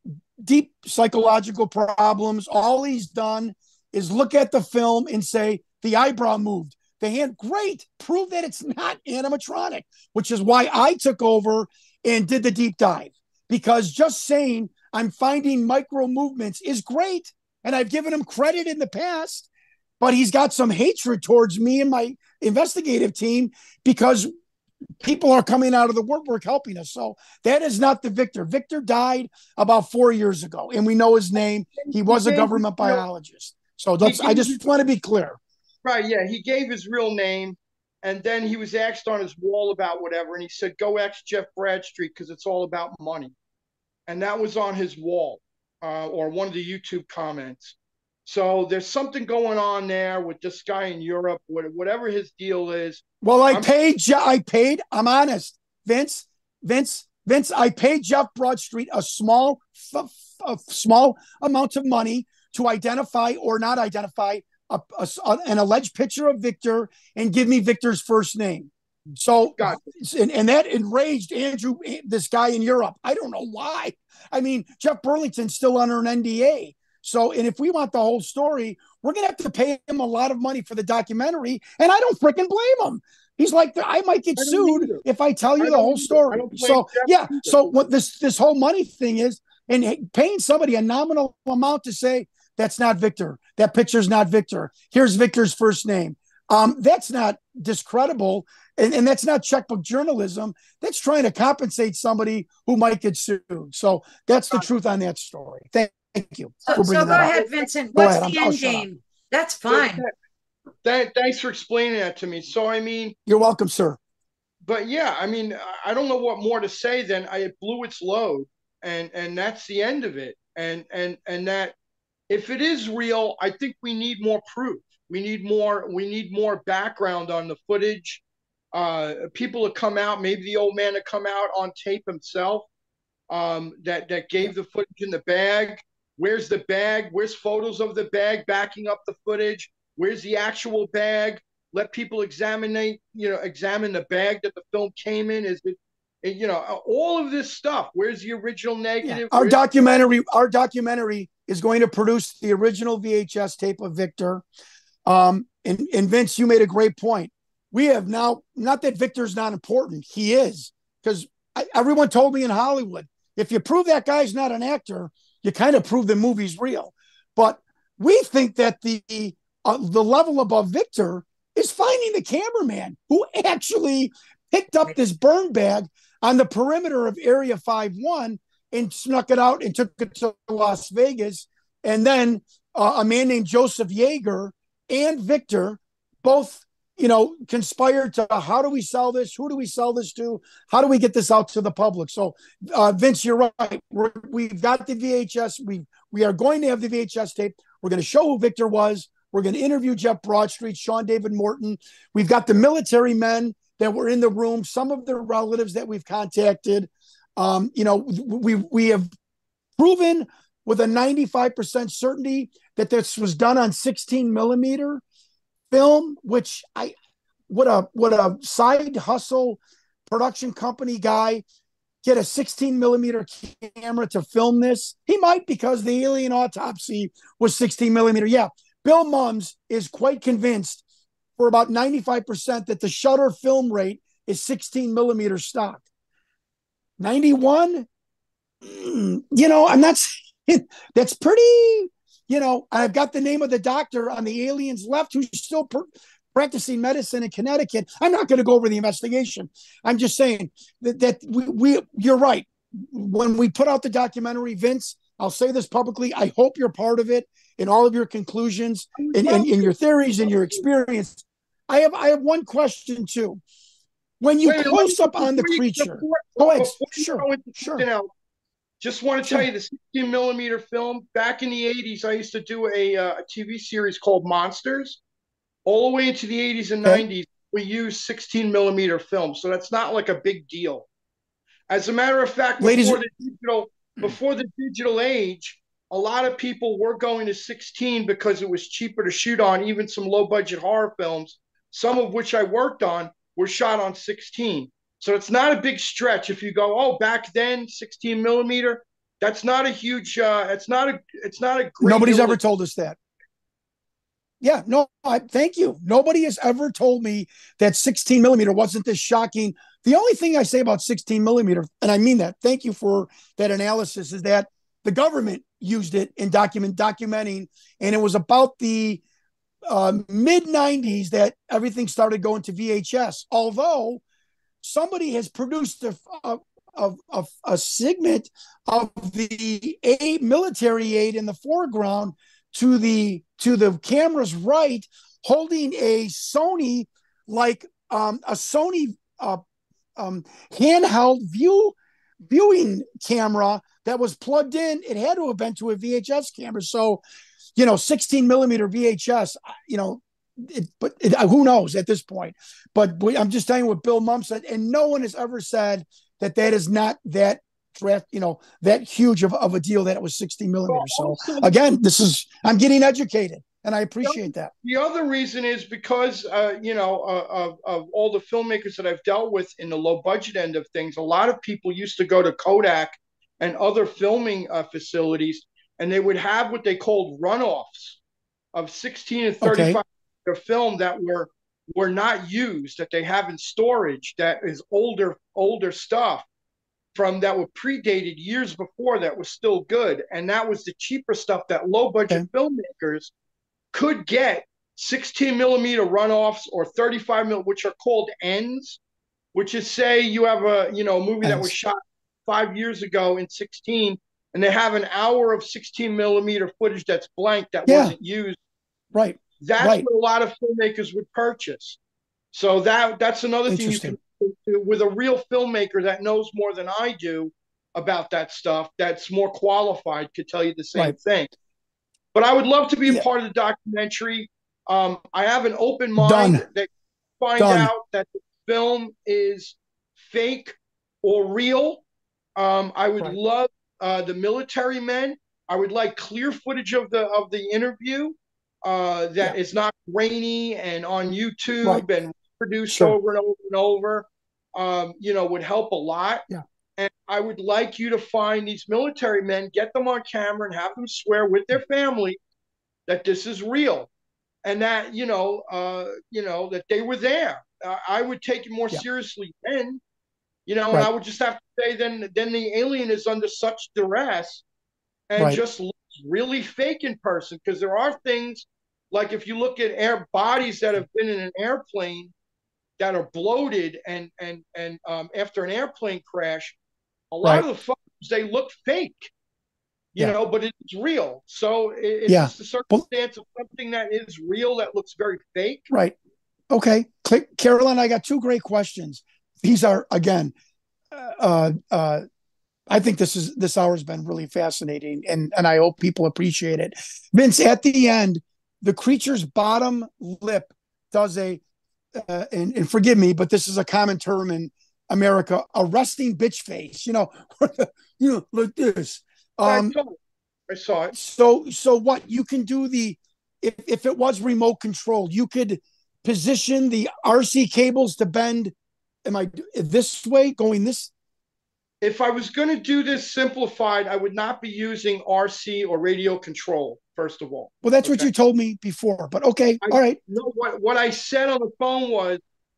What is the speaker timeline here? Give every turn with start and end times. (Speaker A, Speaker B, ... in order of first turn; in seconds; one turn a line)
Speaker A: 0.4-19.5
Speaker A: 20.0-24.3
Speaker A: 25.0-35.4
Speaker B: 31.8-33.0
Speaker B: 34.0-34.6
Speaker B: 35.8-43.3
Speaker B: 44.1-47.7
Speaker B: 48.2-53.7
Speaker A: 53.2-107.3
Speaker B: 84.4-85.0
Speaker B: 85.6-87.6
Speaker C: 106.7-110.0
Speaker B: 106.7-107.5
Speaker A: 107.9-108.8
Speaker B: 109.7-110.1
Speaker B: 110.8-113.2
Speaker A: 113.3-114.0
Speaker B: 114.6-121.7
Speaker B: 122.3-128.2
Speaker B: 128.7-132.7
Speaker B: 133.3-149.6
Speaker A: 149.0-154.4
Speaker A: 155.1-209.1
Speaker A: 209.8-215.0
Speaker A: 215.7-216.9
Speaker A: 217.5-221.4
Speaker A: 222.0-230.8
Speaker A: 231.4-235.8
Speaker A: 237.0-237.9
Speaker A: 238.6-263.4
Speaker B: 258.9-260.6
Speaker A: 264.2-267.8
Speaker B: 264.4-268.1
Speaker B: 268.8-275.0
Speaker B: 275.6-280.9
Speaker B: 281.7-302.4
Speaker A: 282.6-283.0
Speaker A: 301.8-302.9
Speaker A: 304.4-319.0
Speaker A: 319.7-324.0
Speaker A: 324.6-339.4
Speaker A: 339.9-347.0
Speaker A: 347.6-364.5
Speaker B: 360.7-361.5
Speaker B: 364.0-378.0
Speaker B: 378.5-386.2
Speaker A: 379.4-379.8
Speaker B: 386.9-393.1
Speaker B: 393.7-398.8
Speaker B: 399.3-401.8
Speaker A: 401.2-401.5
Speaker B: 402.3-408.4
Speaker A: 407.7-407.9
Speaker A: 408.9-409.9
Speaker B: 409.4-411.8
Speaker B: 412.3-421.3
Speaker A: 413.5-413.9
Speaker B: 422.1-426.7
Speaker A: 426.0-426.4
Speaker B: 427.2-431.8
Speaker A: 427.4-427.7
Speaker B: 432.4-452.2
Speaker A: 442.7-442.9
Speaker B: 452.9-453.9
Speaker B: 454.4-459.8
Speaker B: 460.5-464.4
Speaker B: 465.1-472.1
Speaker B: 472.8-476.6
Speaker B: 477.1-479.1
Speaker B: 479.9-485.7
Speaker A: 482.1-482.8
Speaker A: 485.7-485.9
Speaker A: 486.5-490.3
Speaker A: 490.9-492.0
Speaker A: 492.7-501.4
Speaker A: 501.9-509.7
Speaker B: 509.4-509.9
Speaker B: 510.5-510.9
Speaker A: 510.9-518.5
Speaker A: 519.0-520.9
Speaker B: 521.8-528.1
Speaker A: 527.6-530.0
Speaker B: 529.6-532.2